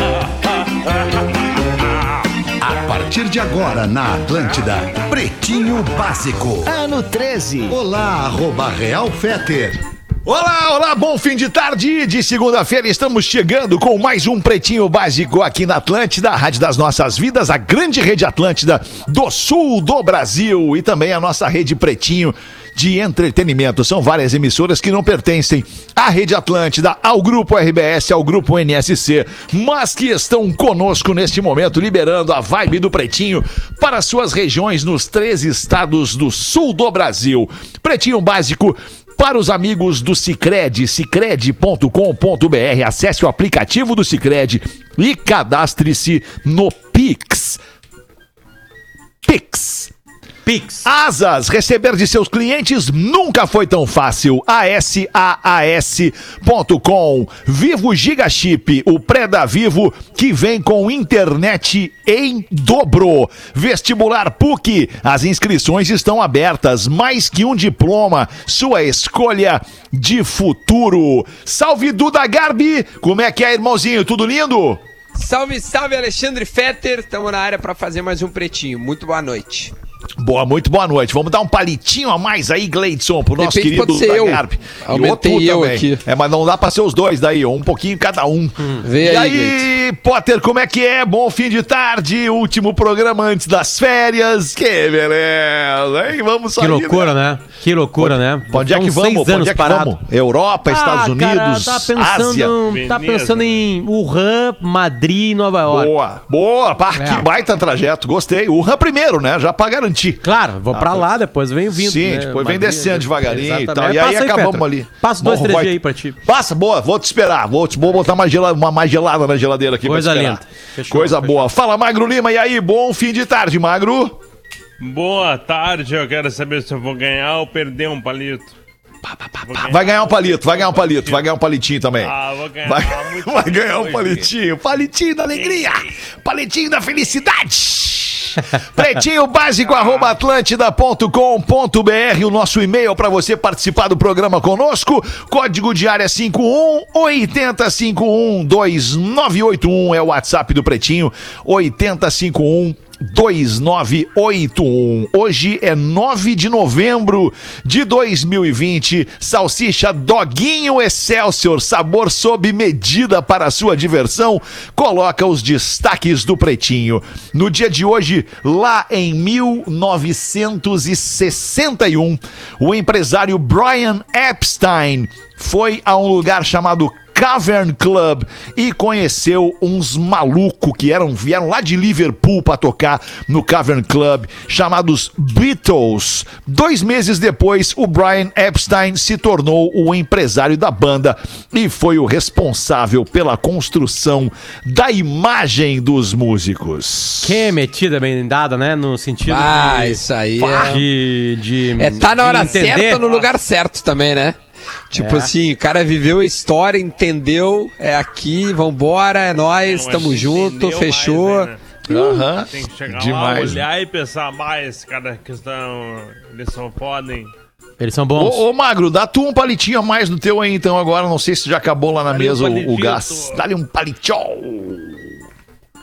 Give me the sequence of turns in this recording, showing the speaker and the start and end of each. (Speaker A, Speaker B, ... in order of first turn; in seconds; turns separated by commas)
Speaker A: 2.7-9.8, Speaker B: 10.2-47.6, Speaker B: 49.2-49.9, Speaker C: 50.5-50.9, Speaker B: 50.9-74.8, Speaker D: 75.2-79.7, Speaker B: 80.2-97.2, Speaker D: 83.4-86.0, Speaker D: 88.8-89.7, Speaker C: 96.6-100.0, Speaker B: 98.0-102.5, Speaker C: 100.7-105.9, Speaker E: 102.7-103.6, Speaker B: 105.7-111.1, Speaker C: 107.0-107.2, Speaker C: 110.2-116.2, Speaker B: 111.7-124.2, Speaker C: 119.8-121.5, Speaker E: 124.8-128.6, Speaker B: 129.0-132.1, Speaker E: 129.4-131.3, Speaker E: 132.0-134.3, Speaker B: 132.6-197.5, Speaker E: 135.4-135.7, Speaker E: 139.7-140.1, Speaker C: 197.2-203.0, Speaker D: 199.3-200.8, Speaker D: 201.8-204.4, Speaker E: 202.5-203.3, Speaker D: 204.9-211.5, Speaker C: 204.9-205.3, Speaker E: 209.6-217.3, Speaker B: 211.9-213.7, Speaker C: 217.8-218.4, Speaker B: 218.2-225.1, Speaker E: 222.1-223.4